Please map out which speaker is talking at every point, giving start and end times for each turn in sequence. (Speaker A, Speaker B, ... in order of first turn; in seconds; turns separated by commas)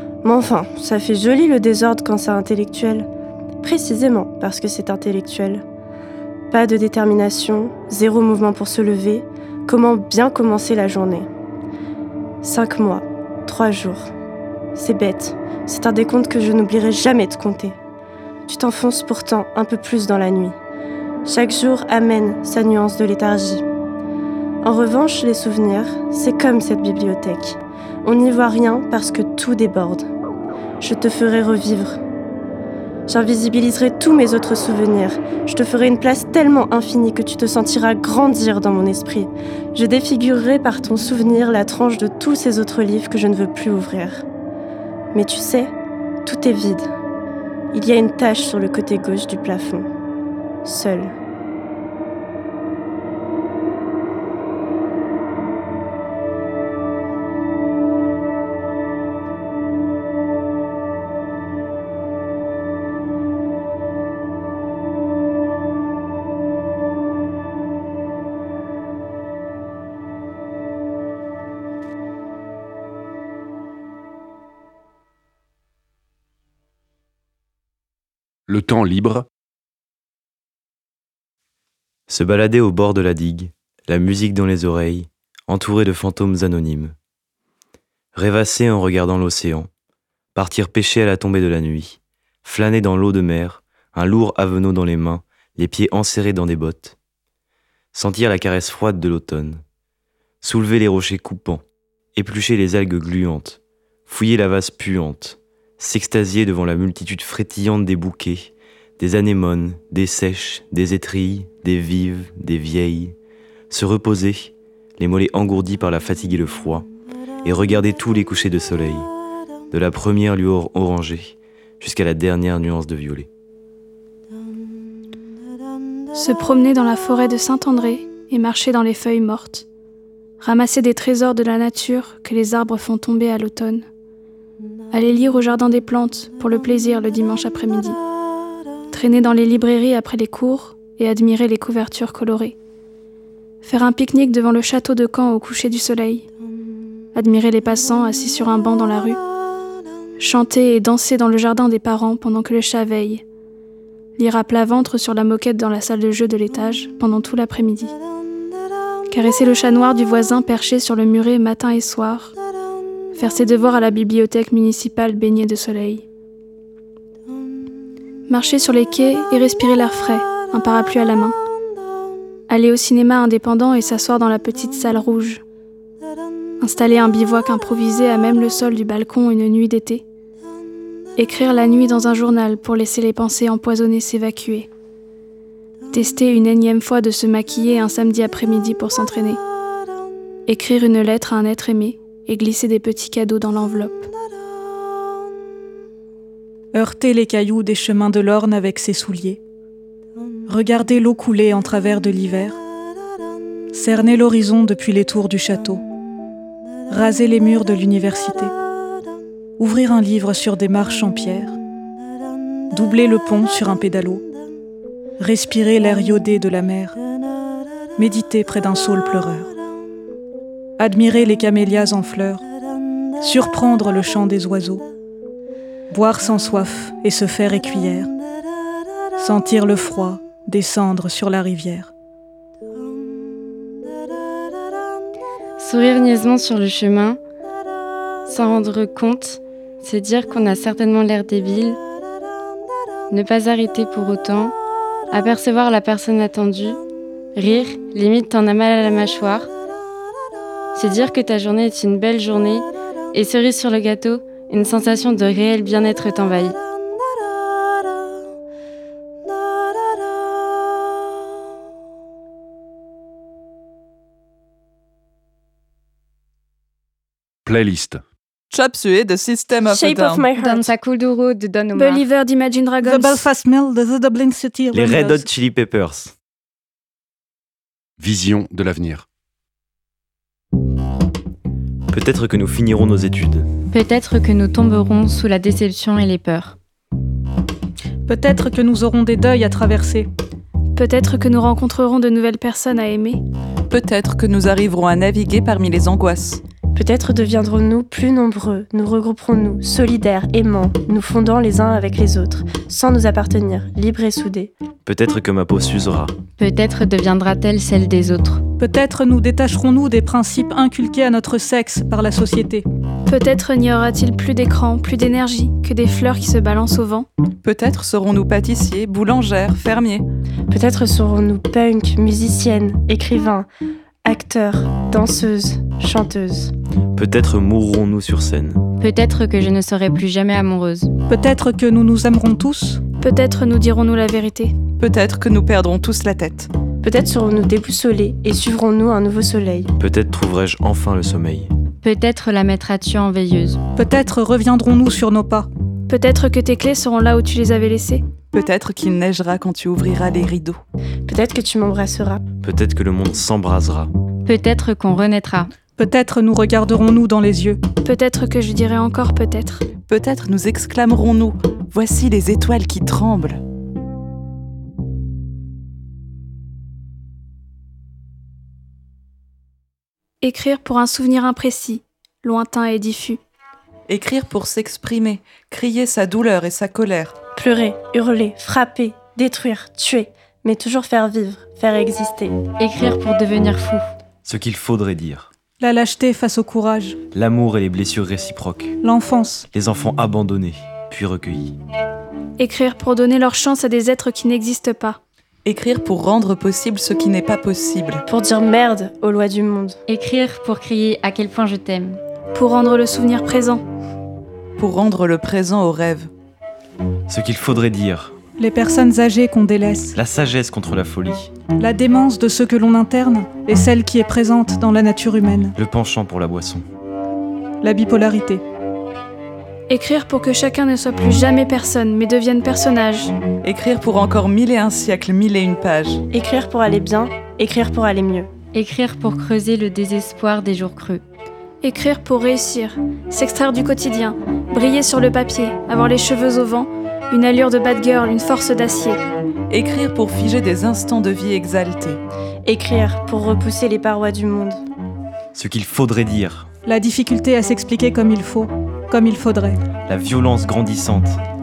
Speaker A: 0.2-3.1, Speaker A: 3.6-5.6, Speaker A: 6.5-11.3, Speaker A: 12.4-14.1, Speaker A: 14.8-17.8, Speaker A: 18.5-20.6, Speaker A: 21.2-23.6, Speaker A: 24.6-30.1, Speaker A: 30.8-32.0, Speaker A: 33.1-44.2, Speaker A: 45.1-45.7, Speaker A: 46.2-46.9, Speaker A: 47.7-49.9, Speaker A: 50.6-51.1, Speaker B: 78.5-79.3, Speaker C: 82.1-87.0, Speaker C: 88.2-89.7, Speaker C: 90.3-97.0, Speaker C: 97.9-99.6, Speaker C: 100.4-101.6, Speaker C: 102.2-113.2, Speaker C: 113.7-116.9, Speaker C: 117.5-119.1, Speaker C: 119.7-123.3, Speaker D: 126.1-129.7, Speaker D: 130.4-133.8, Speaker D: 134.9-138.0, Speaker D: 138.9-142.6, Speaker D: 143.6-146.3, Speaker D: 147.2-149.2, Speaker D: 150.2-153.2, Speaker D: 154.2-157.9, Speaker D: 159.1-162.3, Speaker D: 163.1-166.1, Speaker D: 168.3-171.4, Speaker D: 172.5-175.4, Speaker D: 176.6-180.1, Speaker D: 181.2-184.7, Speaker D: 185.9-189.4, Speaker D: 190.5-194.1, Speaker E: 196.7-199.4, Speaker E: 200.5-202.6, Speaker E: 203.7-205.8, Speaker E: 206.9-208.5, Speaker E: 209.6-211.6, Speaker E: 212.7-214.2, Speaker E: 215.2-217.0, Speaker E: 218.0-219.5, Speaker E: 220.8-222.4, Speaker E: 223.2-224.9, Speaker E: 225.9-228.1, Speaker E: 229.2-231.9, Speaker F: 235.6-237.2, Speaker F: 238.3-241.8, Speaker F: 243.1-244.5, Speaker F: 245.1-246.8, Speaker F: 247.3-249.5, Speaker F: 250.8-256.6, Speaker B: 267.4-268.0, Speaker G: 268.5-270.3, Speaker A: 269.7-270.7, Speaker F: 270.4-272.1, Speaker D: 271.8-273.2, Speaker E: 272.8-275.3, Speaker C: 274.7-276.1, Speaker B: 278.0-279.1, Speaker C: 281.9-283.5, Speaker F: 283.7-286.6, Speaker E: 288.1-290.1, Speaker D: 290.8-293.2, Speaker G: 293.7-296.4, Speaker A: 296.8-304.5, Speaker C: 304.9-306.1, Speaker F: 306.4-308.4, Speaker E: 308.6-312.7, Speaker D: 313.1-317.1, Speaker G: 317.4-320.1, Speaker A: 320.5-323.5, Speaker A: 324.1-326.5, Speaker C: 326.9-328.6, Speaker F: 328.8-330.9, Speaker E: 331.1-332.8, Speaker D: 333.0-334.5, Speaker G: 334.8-336.5, Speaker A: 336.8-339.7, Speaker C: 339.8-341.5, Speaker F: 341.8-343.6, Speaker E: 343.8-345.5, Speaker D: 345.9-348.0, Speaker G: 348.3-350.6, Speaker A: 351.1-352.2, Speaker C: 352.4-353.9, Speaker F: 354.2-355.5, Speaker E: 355.8-357.6, Speaker D: 357.8-359.6, Speaker G: 359.9-363.4, Speaker D: 370.2-373.2, Speaker G: 373.9-377.1, Speaker A: 377.4-382.4, Speaker F: 382.6-383.9, Speaker C: 384.2-385.3, Speaker E: 385.6-387.0, Speaker C: 387.1-388.8, Speaker E: 388.8-389.5, Speaker C: 389.5-391.6, Speaker D: 392.4-395.0, Speaker G: 395.4-398.0, Speaker A: 398.1-399.8, Speaker F: 399.9-402.0, Speaker D: 402.4-403.6, Speaker G: 404.6-406.1, Speaker C: 407.1-408.1, Speaker E: 408.4-410.0, Speaker C: 409.9-411.3, Speaker E: 411.6-415.6, Speaker C: 415.6-416.6, Speaker E: 417.6-418.4, Speaker D: 419.7-423.1, Speaker G: 423.4-426.0, Speaker A: 426.1-428.3, Speaker F: 428.5-431.0, Speaker D: 431.6-439.0, Speaker G: 439.5-442.0, Speaker A: 442.4-444.6, Speaker C: 445.4-446.5, Speaker E: 446.6-449.6, Speaker C: 449.9-451.2